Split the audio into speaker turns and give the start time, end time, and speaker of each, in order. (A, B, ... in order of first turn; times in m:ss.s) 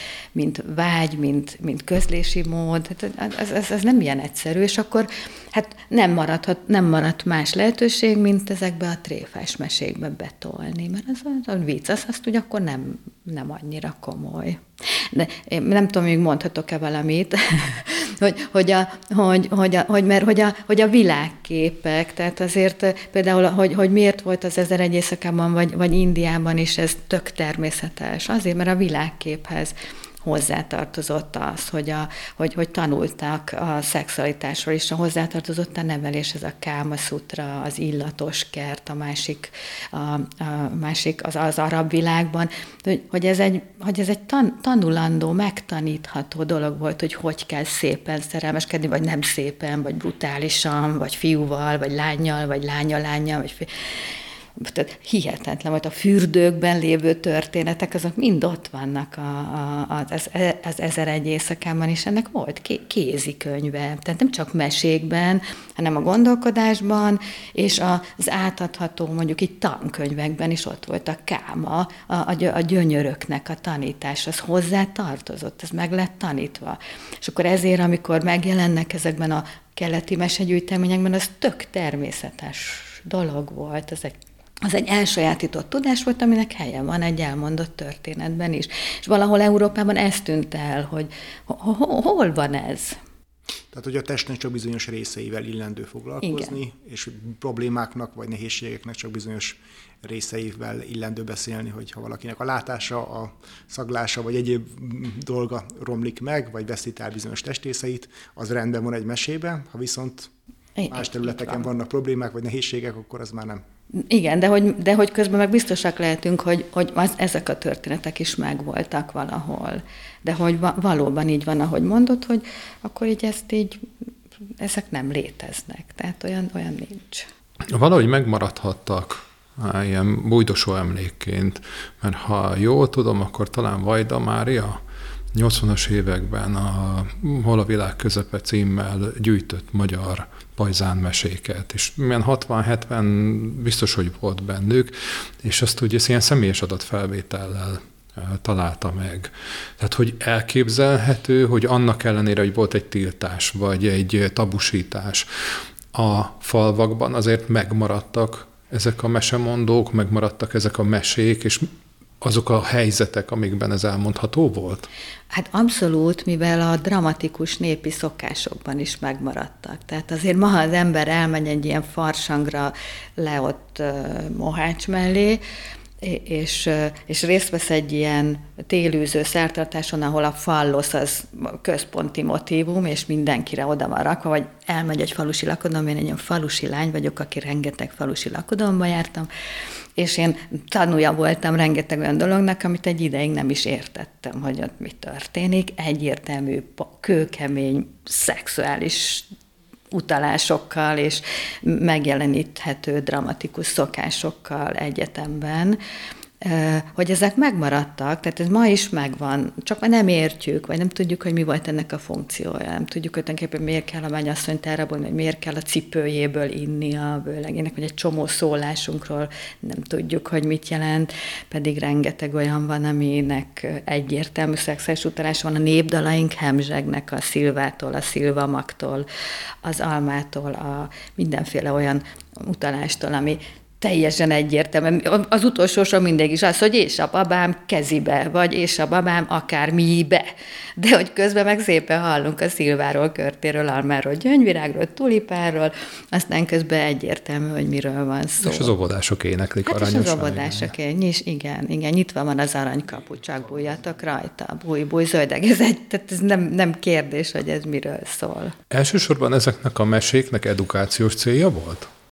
0:00.4-1:33.0 A
1:33.7-1:50.3 B
1:36.2-1:36.5 A
1:50.8-1:51.6 A
1:50.9-1:53.6 B
1:54.0-2:03.8 A
2:04.6-2:07.3 A
2:07.7-2:14.8 C
2:15.3-2:41.7 C
2:42.2-2:44.9 C
2:45.3-2:55.4 A
2:56.0-3:09.3 A
3:10.0-3:19.3 A
3:19.9-3:25.8 A
3:26.4-3:49.1 A
3:49.6-4:08.7 A
4:08.4-4:10.7 C
4:09.6-4:18.6 A
4:18.7-4:21.9 C